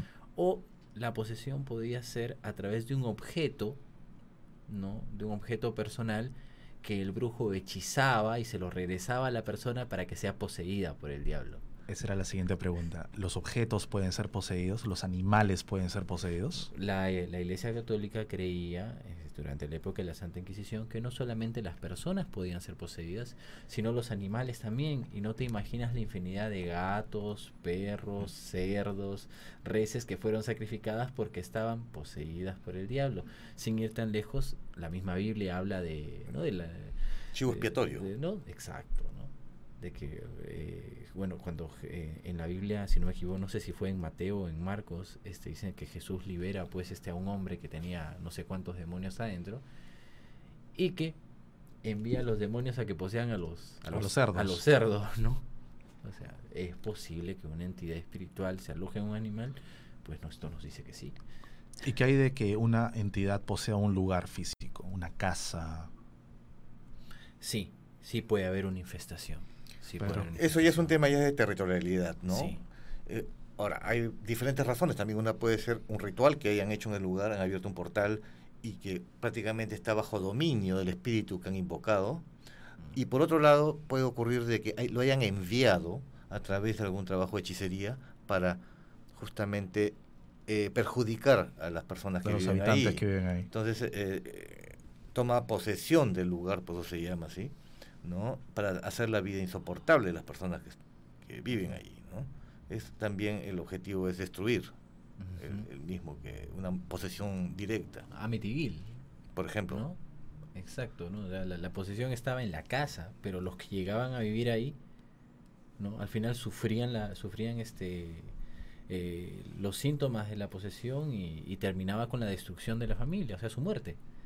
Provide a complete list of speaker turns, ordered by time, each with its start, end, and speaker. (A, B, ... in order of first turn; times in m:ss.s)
0:00.4-0:03.8 A
0:04.7-0:11.6 A
0:11.9-0:16.7 B
0:16.6-0:49.6 A
0:37.3-0:38.0 C
0:50.7-0:51.2 A
0:51.8-0:55.4 A
0:53.9-0:54.6 B
0:56.0-1:01.2 A
1:01.8-1:05.9 B
1:07.4-1:10.9 A
1:10.0-1:12.6 C
1:12.3-1:12.6 A
1:13.1-1:22.2 C
1:22.9-1:28.6 C
1:29.2-1:29.9 C
1:30.5-1:37.5 C
1:32.2-1:33.5 B
1:38.0-1:44.7 C
1:45.2-1:45.7 A
1:45.4-1:48.0 C
1:48.1-1:49.0 A
1:49.4-1:49.8 C
1:49.7-1:50.0 A
1:50.5-1:54.8 A
1:55.8-1:58.3 A
1:58.9-2:04.0 A